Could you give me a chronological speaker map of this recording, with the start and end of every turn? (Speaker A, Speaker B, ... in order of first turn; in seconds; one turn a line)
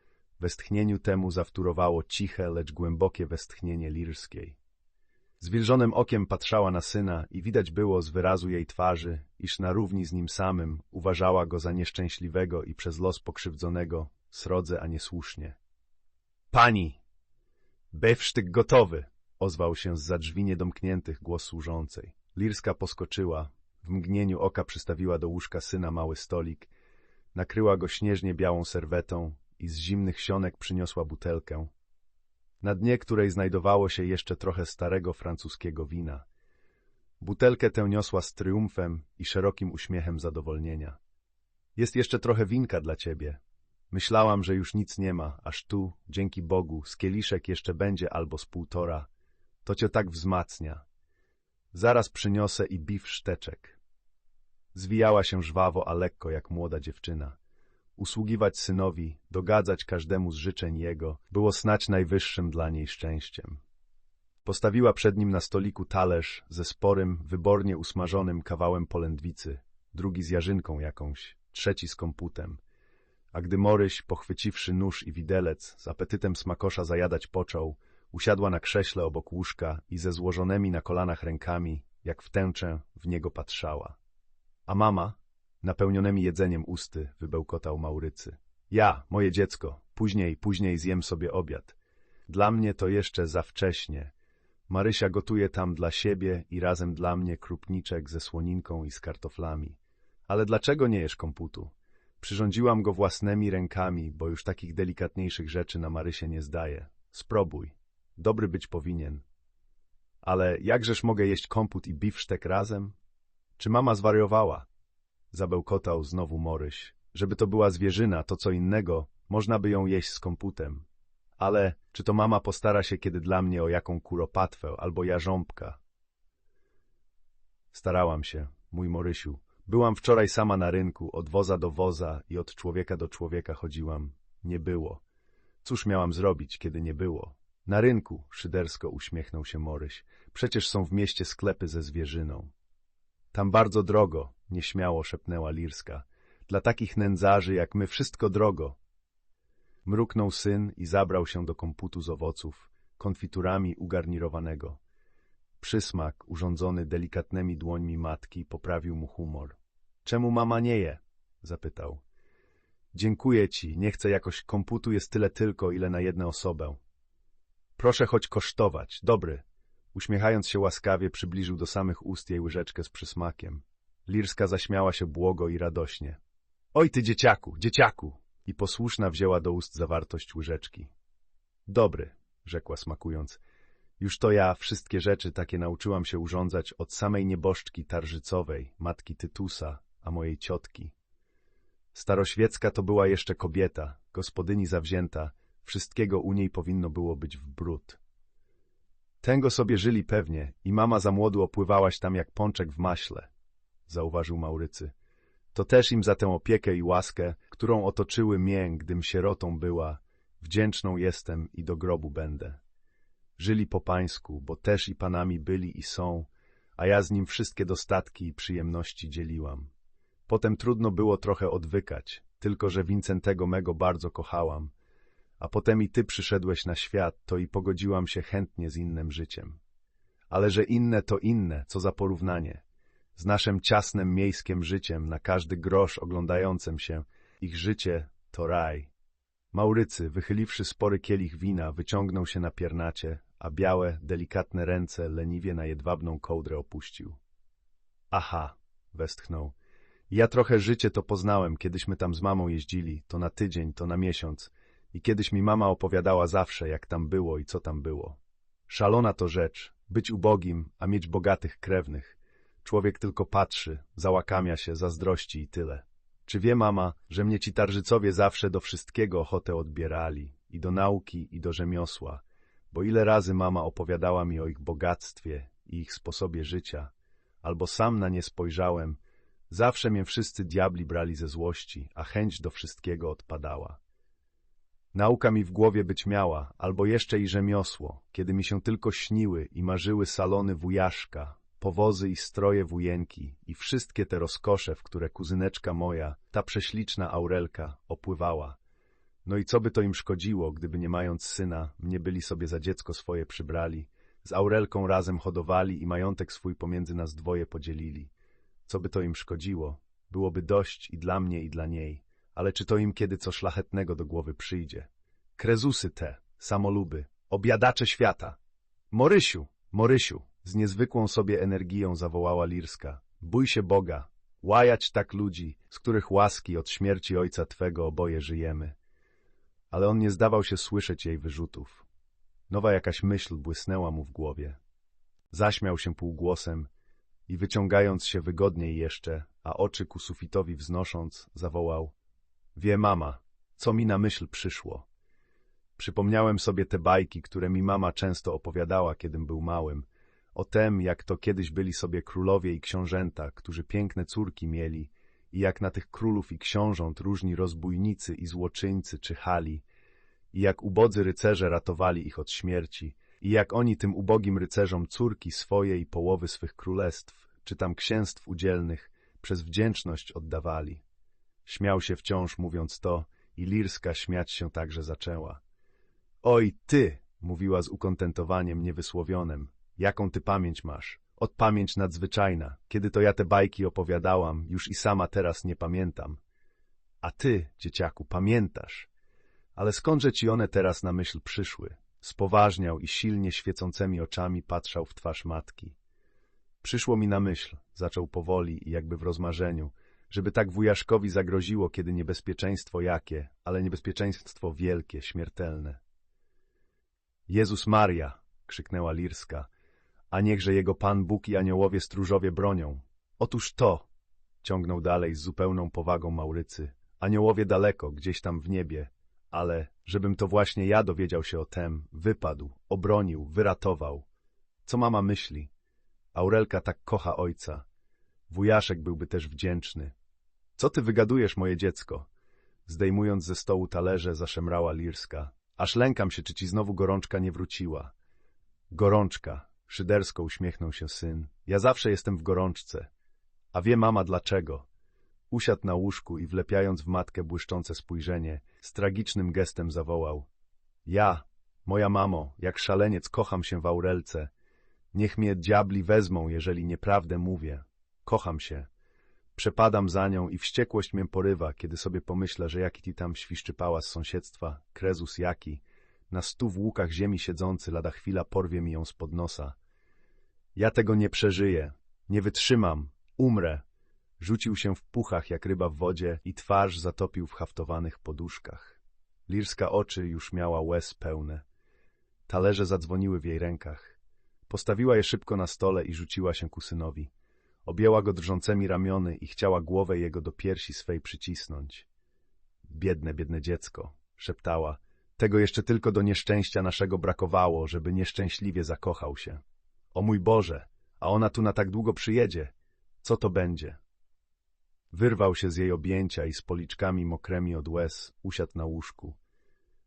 Speaker A: 0.4-4.6
Speaker A: 5.4-15.6
Speaker A: 16.5-17.0
Speaker A: 17.9-26.7
Speaker A: 27.3-31.7
Speaker A: 32.6-36.2
Speaker A: 37.2-41.0
Speaker A: 41.8-43.4
Speaker A: 43.9-49.1
Speaker A: 49.6-50.8
Speaker A: 51.7-53.8
Speaker A: 54.7-57.4
Speaker A: 58.0-63.6
Speaker A: 64.5-72.6
Speaker A: 73.3-84.0
Speaker A: 84.7-91.8
Speaker A: 92.3-94.1
Speaker A: 94.7-99.8
Speaker A: 100.3-109.2
Speaker A: 110.2-113.0
Speaker A: 113.6-114.7
Speaker A: 115.3-120.8
Speaker A: 121.4-125.8
Speaker A: 127.7-135.0
Speaker A: 135.6-142.5
Speaker A: 143.3-148.8
Speaker A: 149.9-154.8
Speaker A: 155.6-162.0
Speaker A: 162.9-166.8
Speaker A: 167.8-176.2
Speaker A: 176.7-180.9
Speaker A: 181.7-183.4
Speaker A: 184.0-190.9
Speaker A: 191.9-198.0
Speaker A: 199.2-203.3
Speaker A: 203.9-204.9
Speaker A: 205.5-212.6
Speaker A: 213.4-219.7
Speaker A: 220.3-224.7
Speaker A: 225.4-229.6
Speaker A: 230.3-232.6
Speaker A: 233.2-238.9
Speaker A: 239.5-247.2
Speaker A: 248.1-249.5
Speaker A: 250.1-276.9
Speaker A: 277.4-279.0
Speaker A: 279.5-283.8
Speaker A: 284.9-298.6
Speaker A: 299.2-308.1
Speaker A: 308.7-318.4
Speaker A: 318.9-328.8
Speaker A: 329.7-331.9
Speaker A: 332.5-334.6
Speaker A: 335.3-336.7
Speaker A: 337.3-341.9
Speaker A: 342.6-344.9
Speaker A: 345.8-359.6
Speaker A: 360.3-370.8
Speaker A: 371.5-375.4
Speaker A: 376.2-386.2
Speaker A: 387.0-388.9
Speaker A: 389.6-395.8
Speaker A: 396.6-405.8
Speaker A: 407.3-409.5
Speaker A: 410.1-413.9
Speaker A: 414.4-424.1
Speaker A: 424.6-425.5
Speaker A: 426.1-427.6
Speaker A: 428.3-429.9
Speaker A: 430.6-432.1
Speaker A: 432.7-437.9
Speaker A: 438.7-442.9
Speaker A: 443.5-444.6
Speaker A: 445.3-450.3
Speaker A: 450.9-454.3
Speaker A: 454.9-458.7
Speaker A: 459.4-469.5
Speaker A: 470.6-473.6
Speaker A: 474.2-481.4
Speaker A: 482.3-483.9
Speaker A: 484.5-487.1
Speaker A: 487.6-491.9
Speaker A: 492.7-499.4
Speaker A: 499.9-503.8
Speaker A: 504.9-509.2